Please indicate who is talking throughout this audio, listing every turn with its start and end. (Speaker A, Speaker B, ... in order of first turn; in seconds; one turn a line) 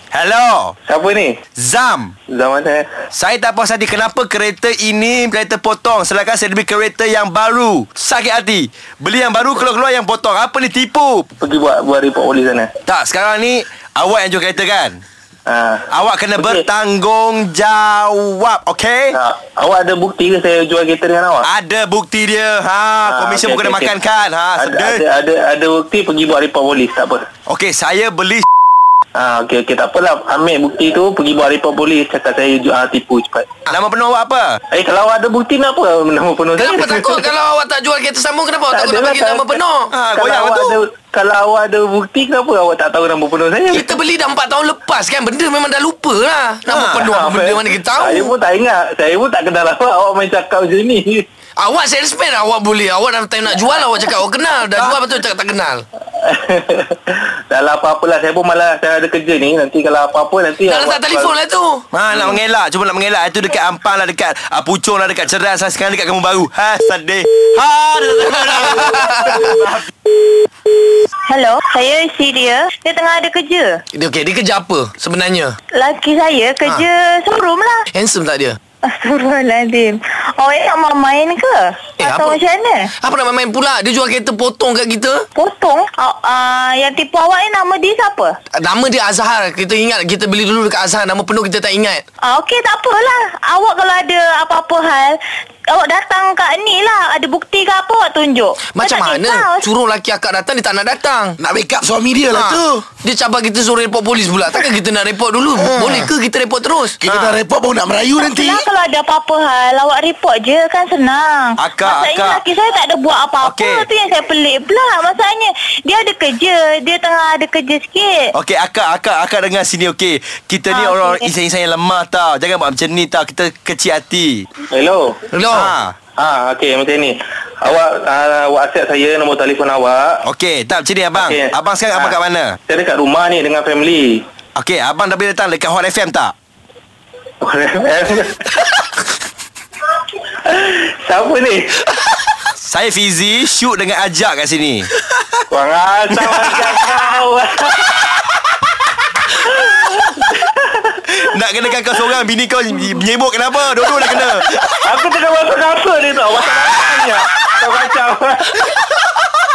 Speaker A: 0.1-0.7
Speaker B: 0.9-1.4
Speaker A: 1.6-2.1
Speaker B: 2.3-2.9
Speaker A: 3.1-11.3
Speaker B: 11.4-12.7
Speaker A: 12.9-15.0
Speaker B: 15.4-16.6
Speaker A: 15.9-19.1
Speaker B: 19.1-21.4
Speaker A: 21.4-25.0
Speaker B: 23.1-24.0
Speaker B: 24.6-27.2
Speaker A: 27.5-28.4
Speaker B: 29.1-33.5
Speaker A: 33.7-34.6
Speaker B: 34.7-37.3
Speaker C: 36.6-39.9
Speaker B: 38.7-39.6
Speaker A: 39.9-40.8
Speaker B: 40.1-43.9
Speaker C: 43.7-48.3
Speaker A: 46.7-47.0
Speaker B: 47.0-51.2
Speaker C: 51.6-55.8
Speaker B: 56.2-61.4
Speaker C: 60.6-61.9
Speaker A: 61.9-69.9
Speaker B: 62.1-62.4
Speaker C: 68.3-69.6
Speaker D: 71.3-73.8
Speaker C: 73.9-75.6
Speaker D: 75.7-77.9
Speaker C: 77.9-78.6
Speaker D: 78.8-82.9
Speaker C: 82.0-82.4
Speaker C: 83.0-85.3
Speaker D: 85.3-88.3
Speaker C: 88.5-92.0
Speaker D: 92.2-95.2
Speaker D: 95.7-99.7
Speaker C: 98.7-101.4
Speaker E: 101.4-102.8
Speaker C: 102.3-107.3
Speaker E: 105.6-106.1
Speaker E: 107.0-108.7
Speaker D: 108.2-118.3
Speaker A: 111.6-112.4
Speaker A: 113.4-113.9
Speaker A: 118.3-124.5
Speaker D: 120.7-121.3
Speaker B: 124.7-125.2
Speaker C: 125.3-125.7
Speaker A: 125.5-125.9
Speaker B: 126.2-130.2
Speaker A: 130.3-132.5
Speaker B: 131.1-134.2
Speaker A: 134.6-136.3
Speaker B: 137.4-138.6
Speaker B: 140.4-141.8
Speaker A: 142.4-144.9
Speaker B: 145.5-148.0
Speaker A: 146.1-146.7
Speaker B: 149.3-151.0
Speaker A: 151.1-154.8
Speaker B: 154.8-158.6